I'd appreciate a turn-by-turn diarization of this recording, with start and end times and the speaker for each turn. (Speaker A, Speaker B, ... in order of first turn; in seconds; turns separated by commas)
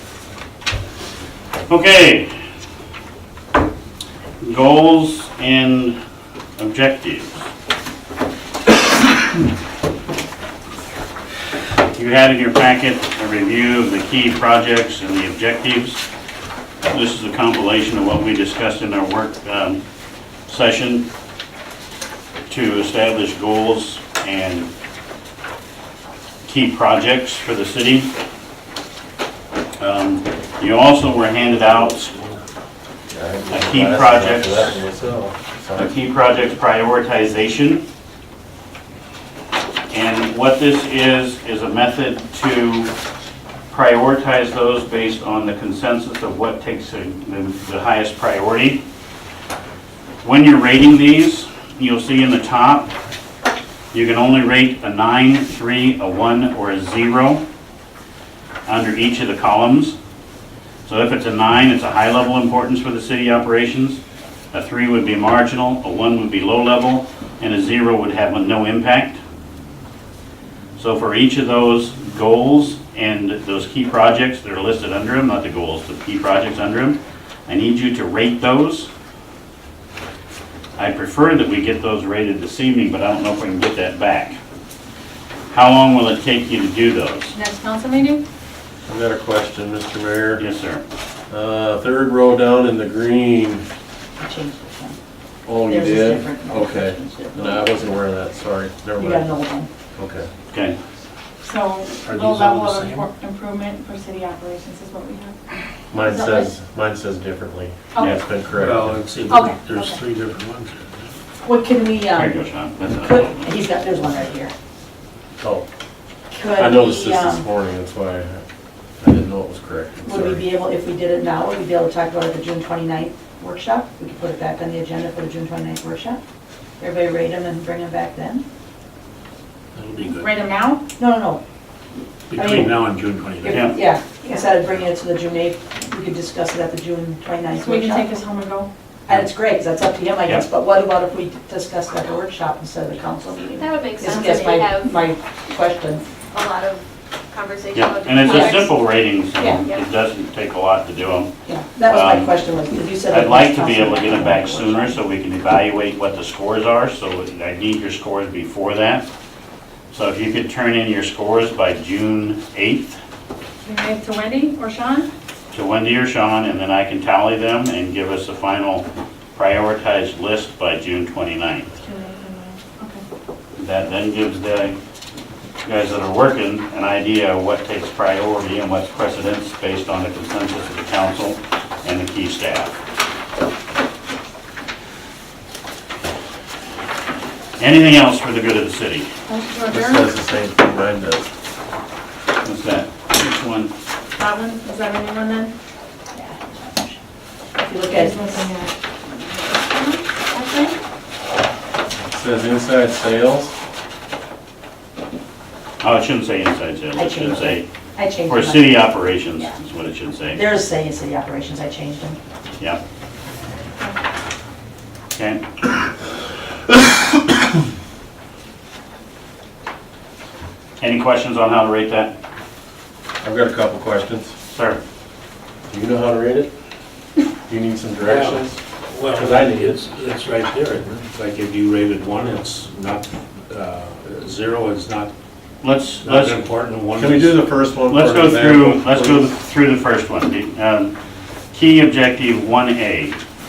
Speaker A: 1.7-2.3, Speaker A: 4.4-6.0, Speaker A: 6.6-7.3, Speaker A: 11.9-16.0, Speaker A: 16.9-19.8, Speaker A: 20.5-21.0, Speaker A: 22.5-24.7, Speaker A: 26.5-28.1, Speaker A: 29.8-32.3, Speaker B: 33.1-35.9, Speaker A: 33.5-34.8, Speaker A: 35.8-37.8, Speaker A: 39.9-42.9, Speaker A: 43.7-48.8, Speaker A: 50.2-52.9, Speaker A: 53.9-57.4, Speaker A: 58.6-60.0, Speaker A: 60.9-64.0, Speaker A: 64.5-69.2, Speaker A: 70.8-78.9, Speaker A: 80.8-84.4, Speaker A: 85.5-87.3, Speaker C: 87.3-88.2, Speaker B: 88.8-90.4, Speaker A: 90.4-90.8, Speaker B: 91.3-93.6, Speaker D: 94.2-95.0, Speaker B: 95.5-99.3, Speaker D: 95.7-98.0, Speaker D: 99.0-99.7, Speaker B: 100.0-100.3, Speaker A: 100.5-100.8, Speaker C: 101.4-106.5, Speaker E: 102.0-103.1, Speaker B: 105.9-109.0, Speaker E: 108.5-111.0, Speaker C: 109.3-110.0, Speaker D: 111.4-114.5, Speaker A: 112.1-113.4, Speaker B: 115.4-115.7, Speaker D: 116.3-117.5, Speaker B: 116.5-118.4, Speaker B: 119.0-120.5, Speaker D: 120.0-126.2, Speaker D: 126.8-128.4, Speaker E: 129.7-130.4, Speaker C: 130.1-130.8, Speaker D: 131.0-131.4, Speaker E: 132.3-133.7, Speaker D: 132.3-132.8, Speaker D: 133.4-138.1, Speaker A: 133.5-133.8, Speaker C: 137.6-138.7, Speaker D: 139.1-146.0, Speaker F: 143.6-144.9, Speaker F: 146.3-148.7, Speaker A: 147.7-151.3, Speaker D: 148.2-148.7, Speaker D: 149.3-149.7, Speaker D: 151.4-155.0, Speaker A: 151.8-152.4, Speaker A: 153.1-159.0, Speaker A: 159.9-163.0, Speaker C: 163.6-165.1, Speaker A: 165.5-171.7, Speaker C: 171.8-173.0, Speaker A: 173.6-174.8, Speaker A: 175.6-182.8, Speaker A: 187.6-189.1, Speaker C: 189.3-190.0, Speaker B: 189.7-191.3, Speaker A: 192.4-193.7, Speaker C: 194.2-195.5, Speaker D: 196.1-197.0, Speaker D: 197.6-198.4, Speaker C: 197.8-200.8, Speaker B: 202.1-203.5, Speaker A: 205.8-207.7, Speaker D: 206.9-208.9, Speaker A: 208.2-210.4, Speaker D: 210.3-212.2, Speaker A: 215.2-215.4, Speaker A: 220.8-222.1, Speaker B: 223.2-224.3, Speaker A: 224.5-224.8, Speaker B: 225.7-226.5, Speaker B: 227.5-228.6, Speaker E: 228.0-235.1, Speaker B: 229.1-229.8, Speaker A: 235.6-236.5, Speaker E: 236.0-237.3, Speaker B: 236.9-239.3, Speaker A: 237.9-240.9, Speaker A: 241.5-243.2